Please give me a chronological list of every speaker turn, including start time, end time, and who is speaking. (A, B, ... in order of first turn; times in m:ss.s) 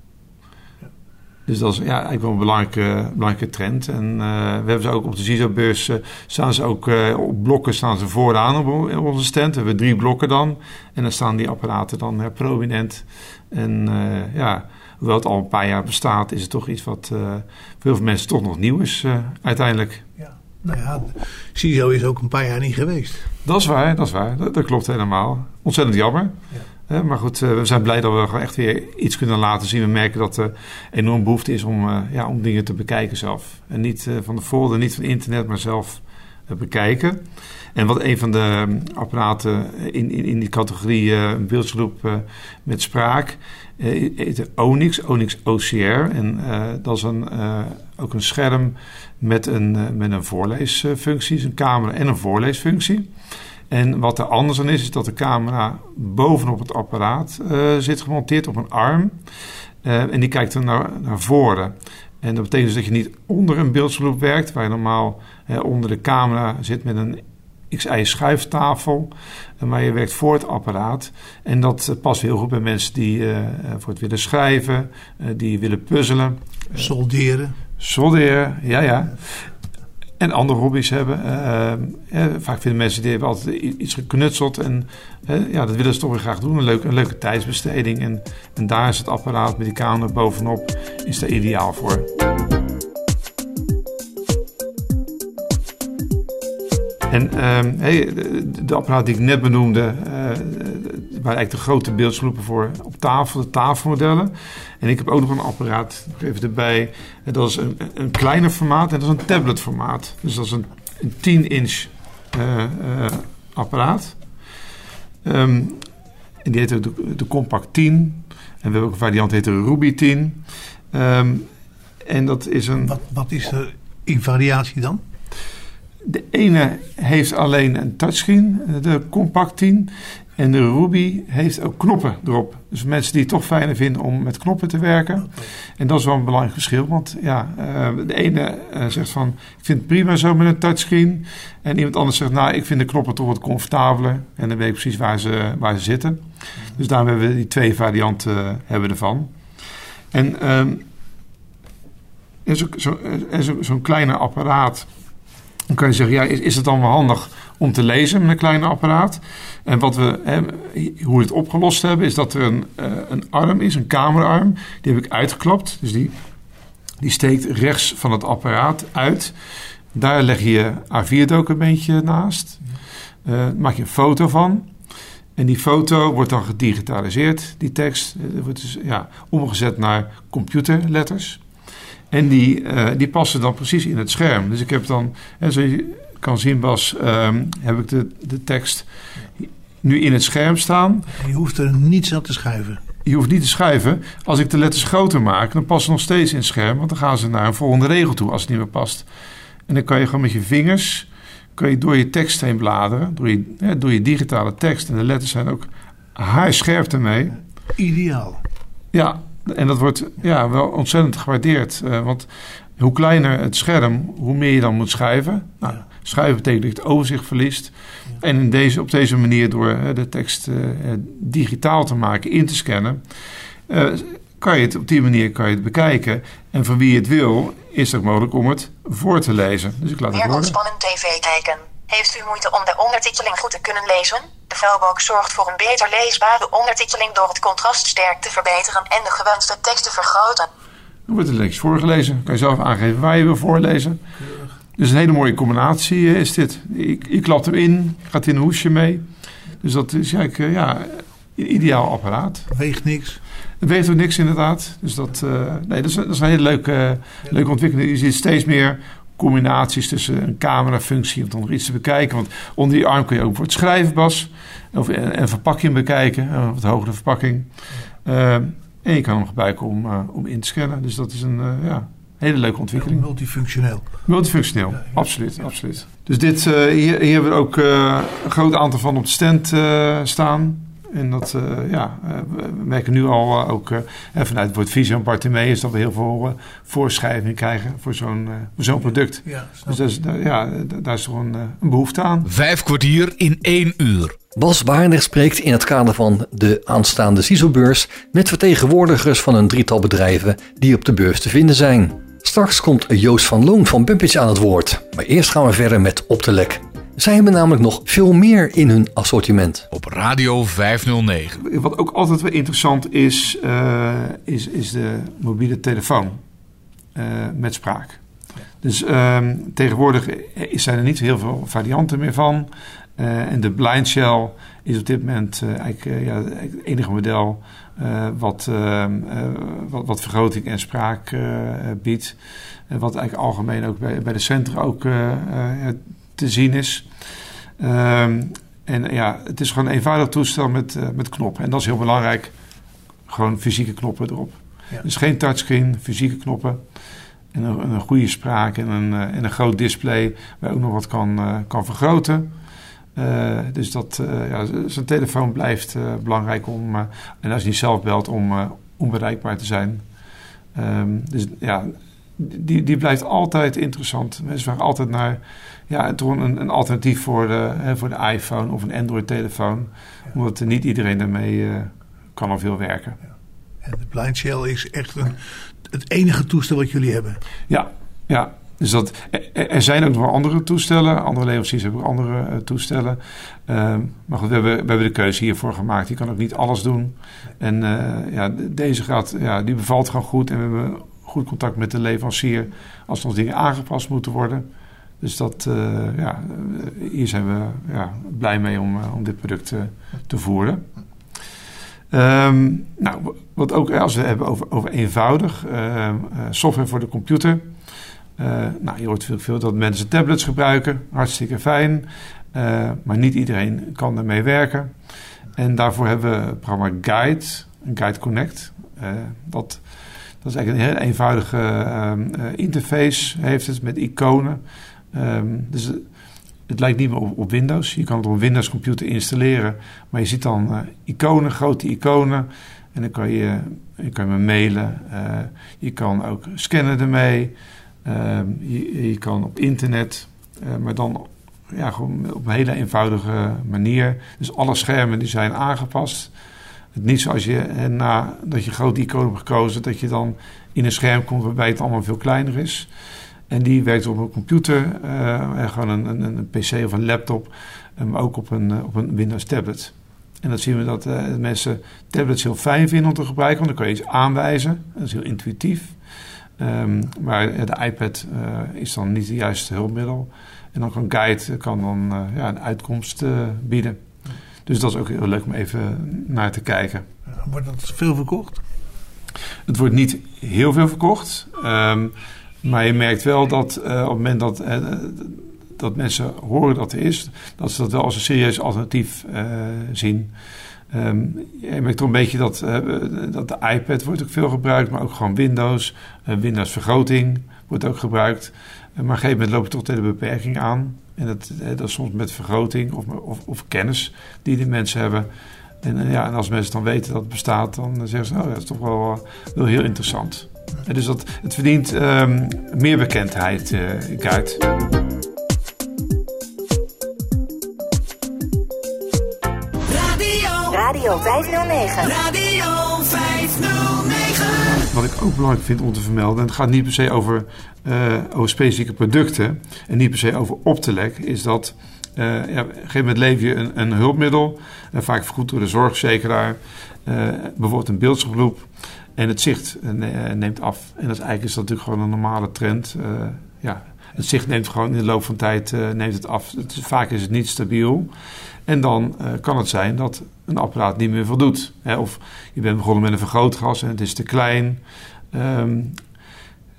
0:01.5-0:20.1 A
0:20.2-0:23.3 B
0:23.4-0:37.2 A
0:37.8-0:53.1 A
0:53.7-0:59.2 A
0:59.8-1:16.9 A
1:16.8-1:17.6 B
1:17.8-1:19.5 A
1:20.2-1:32.1 A
1:37.1-1:54.2 A
1:55.2-1:55.9 A
1:56.4-2:01.5 A
2:02.0-2:03.0 A
2:02.9-2:05.0 B
2:06.0-2:29.3 A
2:30.1-2:30.9 A
2:32.4-2:34.9 A
2:35.7-2:46.2 A
2:47.0-2:49.4 A
2:49.9-2:52.6 A
2:53.2-2:54.7 A
2:55.4-3:01.4 A
3:02.1-3:08.9 A
3:09.4-3:11.2 A
3:11.1-3:12.8 B
3:13.0-3:19.1 A
3:19.7-3:27.4 A
3:27.8-3:28.4 B
3:28.9-3:43.0 A
3:43.7-3:50.6 A
3:50.1-4:00.5 C
4:01.1-4:04.0 A
4:04.2-4:04.5 B
4:04.8-4:09.1 A
4:09.6-4:12.5 A
4:12.5-4:13.2 B
4:13.6-4:27.5 A
4:28.0-4:33.1 A
4:32.8-4:33.9 B
4:34.1-4:52.3 A
4:49.2-4:49.8 B
4:52.2-4:54.2 D
4:54.4-5:09.7 E
5:09.7-5:11.4 D
5:11.4-5:16.2 A
5:17.0-5:18.0 A
5:18.6-5:32.2 A
5:32.7-5:36.9 A
5:37.6-5:42.3 A
5:43.1-5:46.6 A
5:47.3-5:52.3 A
5:53.0-5:59.8 A
6:00.6-6:13.0 A
6:13.6-6:17.2 B
6:17.5-6:34.5 A
6:35.0-6:40.7 A
6:41.9-6:47.5 A
6:48.2-6:54.7 A
6:55.4-6:59.6 A
7:00.2-7:05.9 A
7:06.5-7:26.1 A
7:26.7-7:32.7 A
7:33.3-7:45.8 A
7:46.4-7:53.8 A
7:54.5-7:56.9 A
7:57.1-7:58.4 B
7:59.5-8:10.1 A
8:10.7-8:25.1 A
8:25.6-8:34.4 A
8:39.8-8:44.3 C
8:44.7-9:07.9 A
9:08.5-9:15.8 A